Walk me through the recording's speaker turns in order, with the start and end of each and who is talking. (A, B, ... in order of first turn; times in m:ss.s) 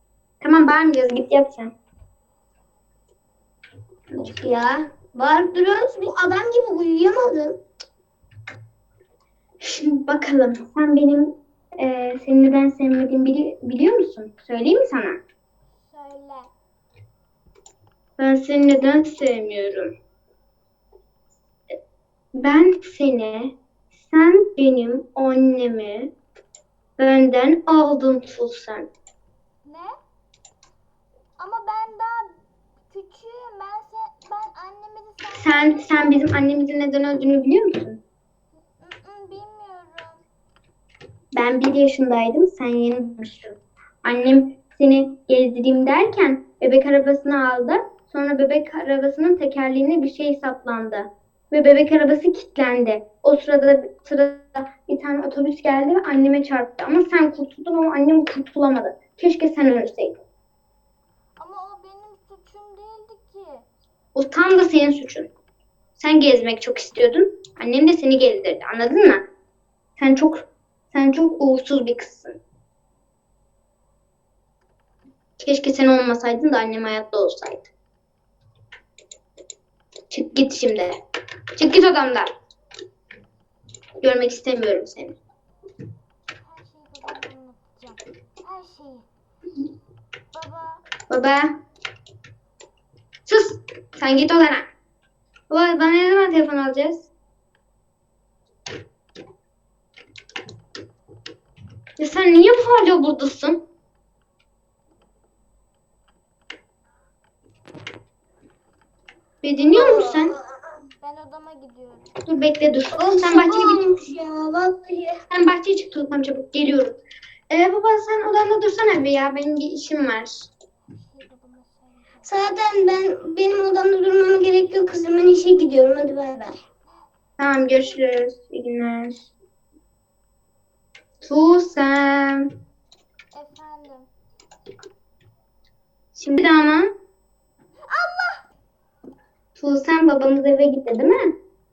0:00.4-0:01.7 A
0:04.2-0:07.6 B
0:09.6-0:15.2 A
0:15.8-0:16.5 C
0:18.2-0:19.9 A
0:22.4-0:26.1 A
0:27.0-0:28.9 A
0:29.6-0:29.9 C
0:31.4-0:36.4 C
0:35.4-0:38.0 A
0:38.8-0:40.2 C
0:41.3-1:00.2 A
1:01.4-1:03.7 C
1:04.2-1:05.3 A
1:06.0-1:09.2 A
1:10.0-1:12.4 A
1:15.4-1:17.7 A
1:20.1-1:21.0 A
1:21.6-1:22.3 A
1:24.0-1:25.2 A
1:26.4-1:29.1 C
1:30.3-1:30.9 C
1:31.1-1:31.5 A
1:33.3-1:34.6 A
1:35.5-1:37.1 A
1:42.0-1:43.6 A
1:49.4-1:50.3 A
1:49.7-1:50.3 B
1:51.0-1:52.1 C
1:52.2-1:53.8 A
1:53.0-1:55.2 B
1:55.3-1:57.0 A
1:57.5-2:00.5 A
2:00.9-2:02.9 C
2:02.2-2:06.6 B
2:07.4-2:09.2 A
2:11.2-2:12.5 A
2:13.3-2:14.1 C
2:16.2-2:16.9 A
2:17.9-2:18.4 C
2:19.6-2:21.2 A